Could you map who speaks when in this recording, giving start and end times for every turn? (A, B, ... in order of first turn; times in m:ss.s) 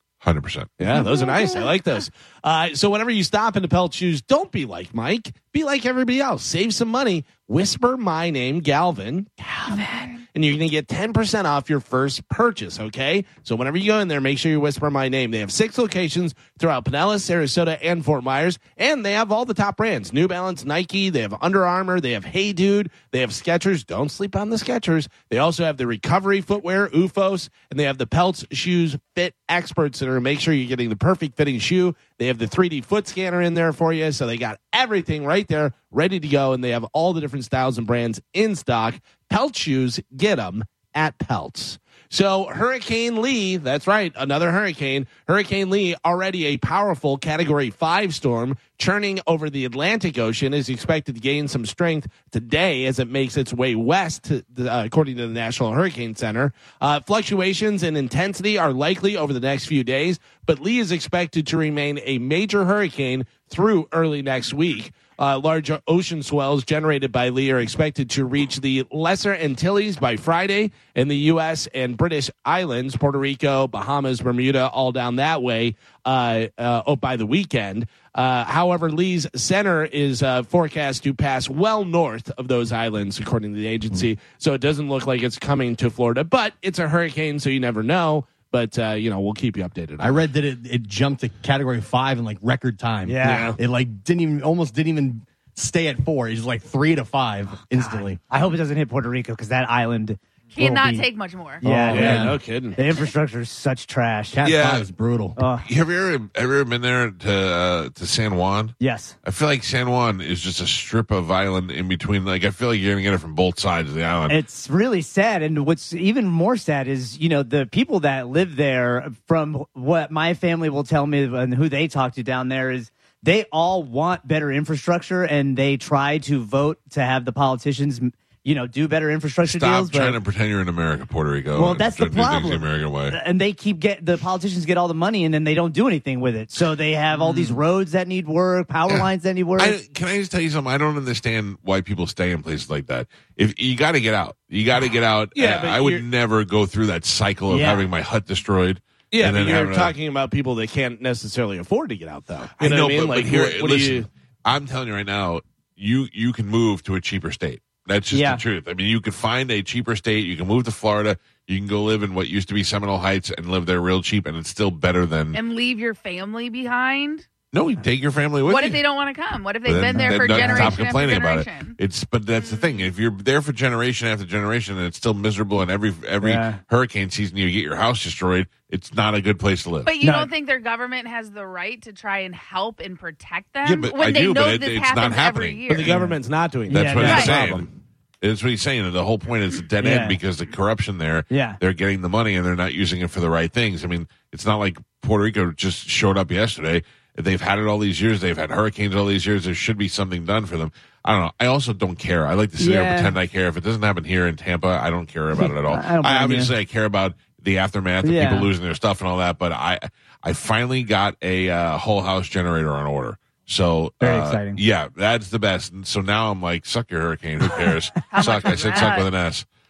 0:00.2-0:00.7 A
0:00.8-1:30.3 B
1:30.0-1:38.2 C
1:33.0-1:33.6 D
1:33.2-1:33.6 B
1:37.7-1:41.0 D
1:40.5-1:41.6 E
1:41.6-1:44.4 D
1:41.6-1:42.4 C
1:41.8-1:42.8 B
1:44.3-1:45.4 C
1:44.4-1:44.9 A
1:45.4-1:45.6 D
1:45.6-1:54.4 A
1:48.8-1:49.1 D
1:54.3-2:10.2 D
2:09.4-2:13.2 A
2:11.5-2:19.8 D
2:17.3-2:17.6 B
2:18.9-2:29.9 A
2:25.3-2:26.0 B
2:27.5-2:27.8 D
2:29.1-2:34.1 B
2:32.6-2:45.4 A
2:38.1-2:38.4 D
2:45.3-2:47.2 E
2:47.5-2:48.8 A
2:48.4-2:51.8 E
2:49.6-2:59.9 A
2:49.9-2:50.8 D
2:52.4-2:52.9 E
2:56.2-2:56.6 D
2:59.8-3:06.0 E
3:00.0-3:00.3 D
3:03.6-3:05.6 A
3:05.7-3:07.7 B
3:05.9-3:07.3 D
3:06.7-3:07.7 A
3:07.0-3:07.4 E
3:08.2-3:39.5 A
3:09.8-3:10.2 D
3:11.3-3:11.6 D
3:22.6-3:23.2 D
3:25.4-3:26.5 D
3:28.0-3:28.5 D
3:34.0-3:34.6 D
3:38.1-3:39.1 E